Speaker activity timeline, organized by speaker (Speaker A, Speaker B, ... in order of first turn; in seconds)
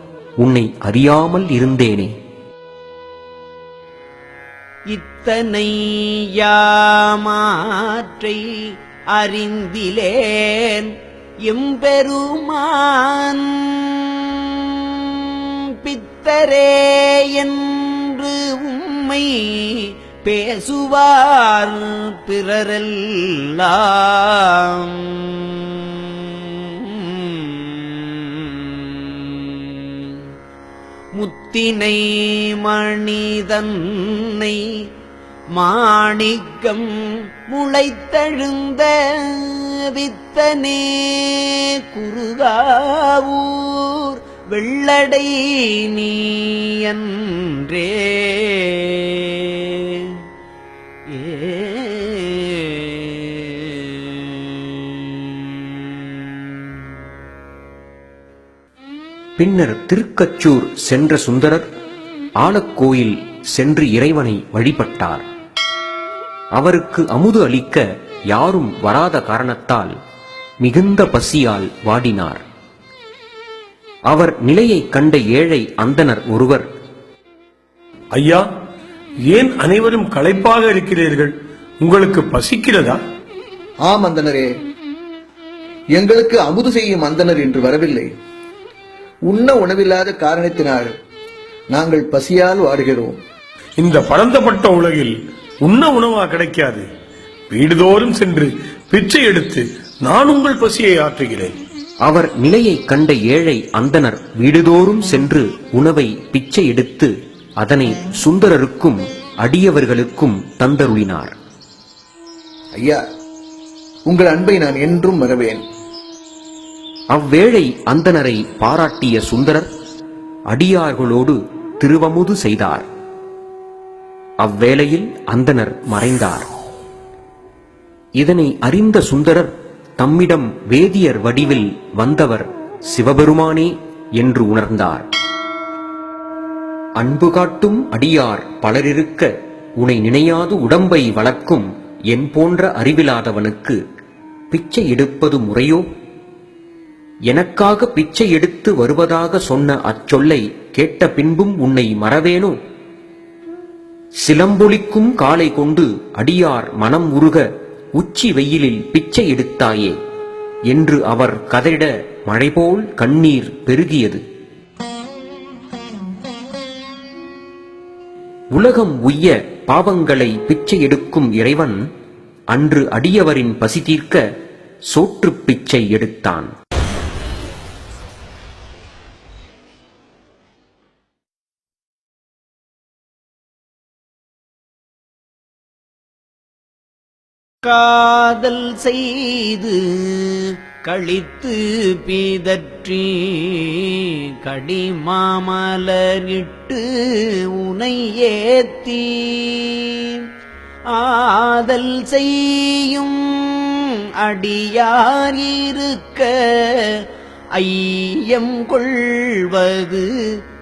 Speaker A: 0.4-2.1, 59.4-61.7, 62.4-65.2, 66.5-69.9, 70.6-72.4, 74.1-76.7, 102.0-111.3, 117.1-119.7, 120.5-122.8, 124.4-126.5, 128.2-135.1, 137.0-143.8, 144.5-145.8, 147.3-152.6, 154.2-157.4, 158.0-160.0, 160.7-164.2, 168.5-171.8, 172.5-174.2, 174.9-176.5
Speaker B: 4.9-8.4, 9.2-10.9, 11.4-30.2, 31.1-34.6, 35.6-36.9, 37.5-50.1, 51.1-56.6, 187.6-200.2, 200.9-207.0, 207.6-210.4
Speaker C: 78.1-78.4, 79.3-83.0, 93.8-96.9, 97.5-101.6
Speaker D: 83.8-84.5, 86.0-88.1, 89.3-90.9, 91.7-93.2, 114.1-115.6